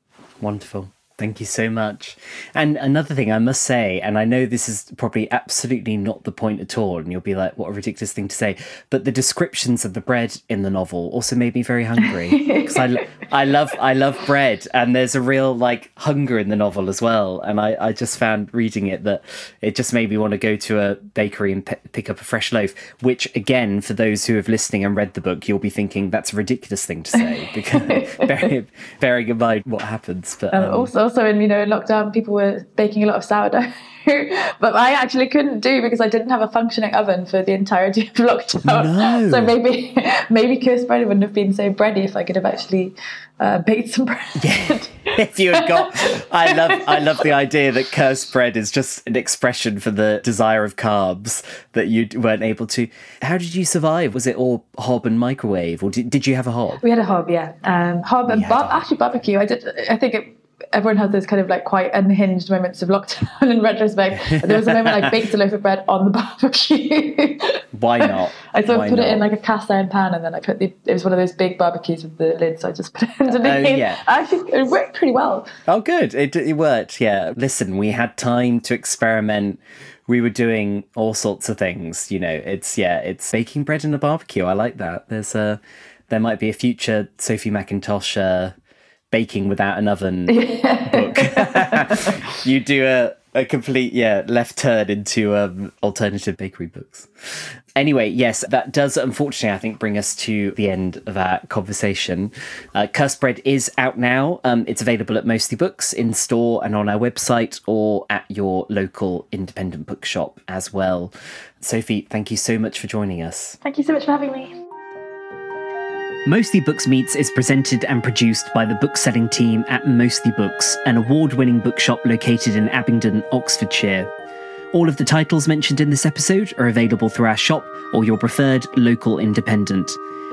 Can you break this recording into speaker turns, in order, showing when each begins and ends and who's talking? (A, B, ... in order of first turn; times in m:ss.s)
0:00.4-0:30.9 A
0:12.0-0:13.0 B
0:27.8-0:28.5 B
0:30.5-0:47.3 B
0:38.7-0:39.5 A
0:44.4-0:56.8 A
0:56.8-1:15.5 B
0:58.3-0:58.8 A
1:04.2-1:05.1 A
1:07.7-1:09.2 A
1:13.4-1:14.0 A
1:15.7-1:28.5 A
1:29.1-1:53.6 A
1:30.3-1:32.2 B
1:53.6-1:54.6 B
1:56.3-2:04.1 A
2:04.7-2:10.0 A